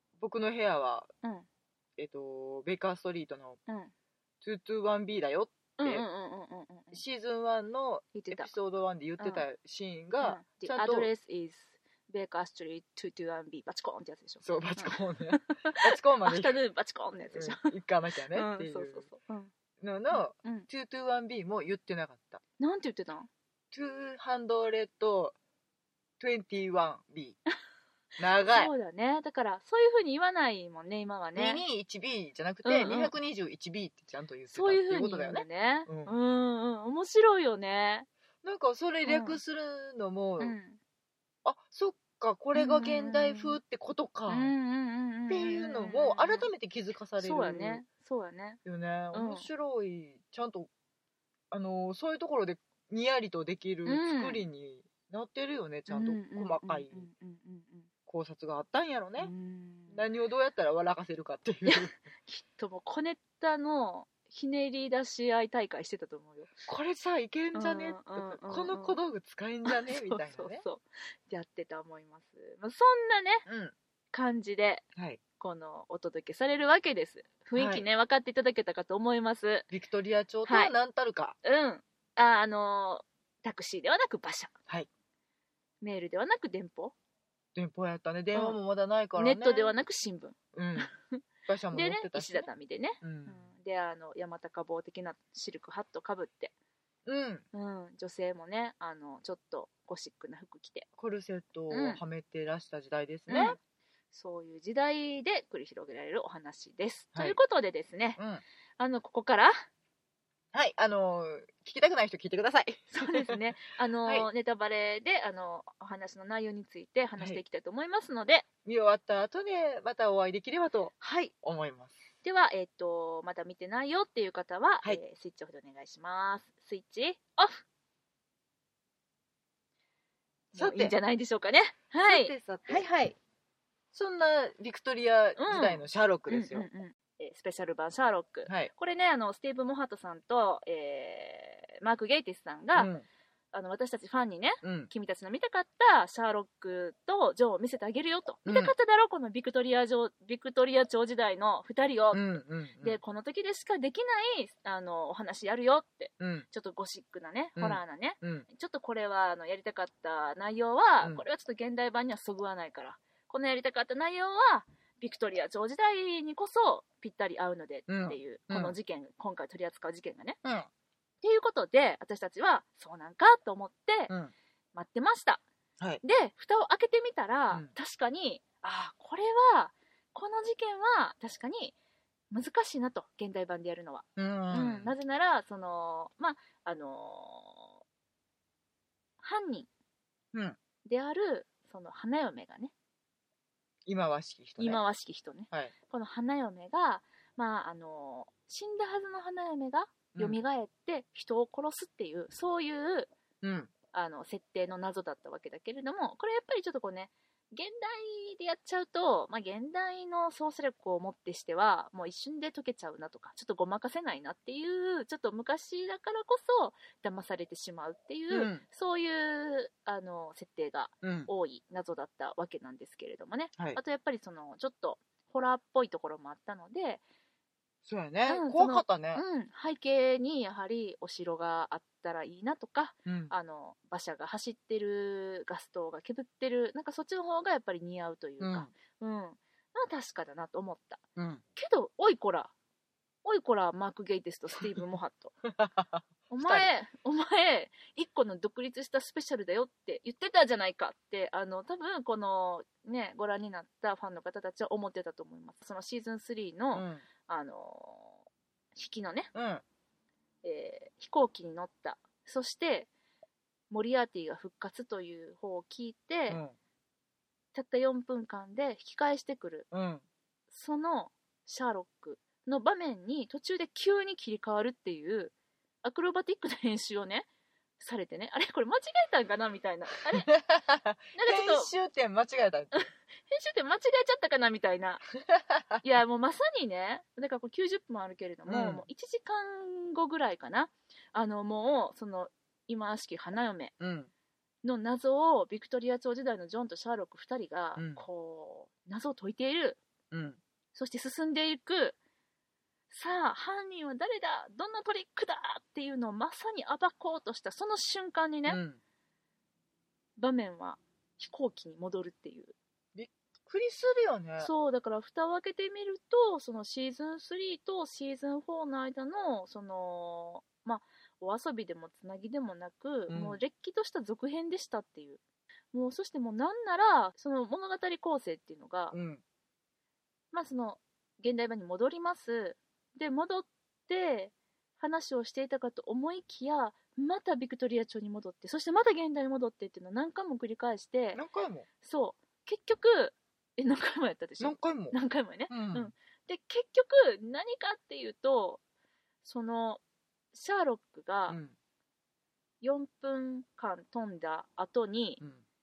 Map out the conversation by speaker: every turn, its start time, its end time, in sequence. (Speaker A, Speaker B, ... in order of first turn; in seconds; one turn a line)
Speaker A: 0.2-1.1
Speaker A: 2.0-3.6
Speaker B: 3.7-3.9
Speaker A: 4.4-6.0
Speaker B: 5.8-7.0
Speaker A: 6.9-11.1
Speaker B: 8.1-8.5
Speaker B: 9.2-9.4
Speaker B: 10.2-17.7
Speaker A: 14.4-16.6
Speaker A: 17.3-19.1
Speaker B: 18.3-19.5
Speaker A: 19.8-22.4
Speaker B: 20.1-20.7
Speaker B: 22.6-23.3
Speaker A: 23.7-25.3
Speaker A: 26.2-27.4
Speaker A: 28.2-28.7
Speaker B: 28.4-31.6
Speaker A: 31.3-36.1
Speaker B: 32.6-33.1
Speaker B: 34.5-38.1
Speaker A: 38.4-40.6
Speaker B: 39.0-39.4
Speaker B: 40.4-40.8
Speaker A: 41.4-44.5
Speaker B: 42.5-43.6
Speaker B: 44.3-46.5
Speaker A: 45.3-47.8
Speaker B: 47.2-48.6
Speaker A: 48.6-50.7
Speaker B: 49.1-49.5
Speaker A: 51.5-57.1
Speaker B: 53.9-54.4
Speaker B: 55.9-57.9
Speaker A: 58.1-59.3
Speaker B: 59.2-60.1
Speaker A: 59.9-61.9
Speaker B: 61.6-66.5
Speaker A: 66.7-70.6
Speaker B: 67.5-69.0
Speaker B: 69.7-73.5
Speaker A: 73.5-73.7
Speaker B: 74.1-74.8
Speaker B: 75.4-79.7
Speaker A: 77.5-77.8
Speaker A: 79.7-81.3
Speaker B: 80.5-80.7
Speaker B: 81.4-84.5
Speaker B: 85.8-86.9
Speaker A: 87.5-89.7
Speaker B: 88.3-88.6
Speaker B: 89.1-96.5
Speaker A: 90.5-90.9
Speaker A: 91.5-92.5
Speaker A: 93.0-93.5
Speaker A: 97.0-97.4
Speaker B: 97.5-100.8
Speaker A: 101.0-103.6
Speaker B: 101.7-102.0
Speaker B: 103.3-103.6
Speaker B: 104.1-108.2
Speaker A: 108.2-108.4
Speaker B: 108.8-109.5
Speaker A: 110.5-113.4
Speaker B: 112.9-118.5
Speaker A: 118.6-122.0
Speaker B: 121.0-121.3
Speaker B: 122.2-127.6
Speaker B: 130.5-133.2
Speaker A: 130.5-130.9
Speaker A: 132.0-132.9
Speaker A: 133.9-136.7
Speaker B: 135.4-142.9
Speaker A: 142.7-143.0
Speaker B: 143.5-170.4
Speaker A: 144.6-144.9
Speaker A: 148.4-148.7
Speaker A: 152.1-153.0
Speaker A: 156.2-156.4
Speaker A: 157.6-158.4
Speaker A: 167.9-168.8
Speaker A: 170.4-170.7
Speaker B: 171.2-174.1
Speaker B: 174.7-175.4
Speaker B: 176.0-181.7
Speaker B: 182.3-187.8
Speaker A: 184.2-184.9
Speaker B: 189.2-189.7
Speaker A: 190.3-190.6
Speaker B: 190.8-192.7
Speaker A: 193.8-194.8
Speaker B: 194.6-203.1
Speaker A: 203.4-203.7
Speaker B: 203.9-227.0
Speaker A: 218.3-218.6
Speaker A: 221.0-221.3
Speaker A: 227.8-229.2
Speaker B: 228.3-241.0
Speaker A: 233.1-233.3
Speaker A: 238.4-238.7
Speaker A: 241.2-241.4
Speaker B: 241.5-242.5
Speaker B: 243.2-245.3
Speaker A: 245.4-246.7
Speaker B: 246.3-258.2
Speaker A: 256.7-257.0
Speaker B: 258.7-259.3
Speaker A: 259.3-259.6
Speaker B: 260.4-262.9
Speaker B: 263.7-266.4
Speaker A: 266.3-266.5
Speaker B: 267.5-269.7
Speaker A: 269.7-270.0
Speaker B: 270.5-277.3
Speaker B: 277.8-280.3
Speaker A: 280.1-282.9
Speaker B: 281.1-281.7
Speaker B: 282.7-285.0
Speaker A: 285.3-285.8
Speaker B: 285.8-293.7
Speaker A: 288.5-288.8
Speaker A: 293.8-294.1
Speaker B: 294.6-299.8
Speaker A: 297.8-298.0
Speaker A: 300.1-300.4
Speaker B: 300.7-302.0
Speaker B: 302.9-308.6
Speaker A: 308.5-308.8
Speaker B: 310.2-312.5
Speaker A: 312.9-314.5
Speaker B: 314.4-325.2
Speaker A: 323.1-323.4
Speaker B: 325.7-328.9
Speaker A: 328.9-329.2
Speaker B: 330.3-341.2
Speaker A: 341.1-341.7
Speaker B: 341.8-348.6
Speaker A: 344.4-345.0
Speaker A: 345.5-345.9
Speaker B: 349.2-349.8
Speaker B: 350.3-351.4
Speaker A: 351.3-351.5
Speaker B: 352.6-355.2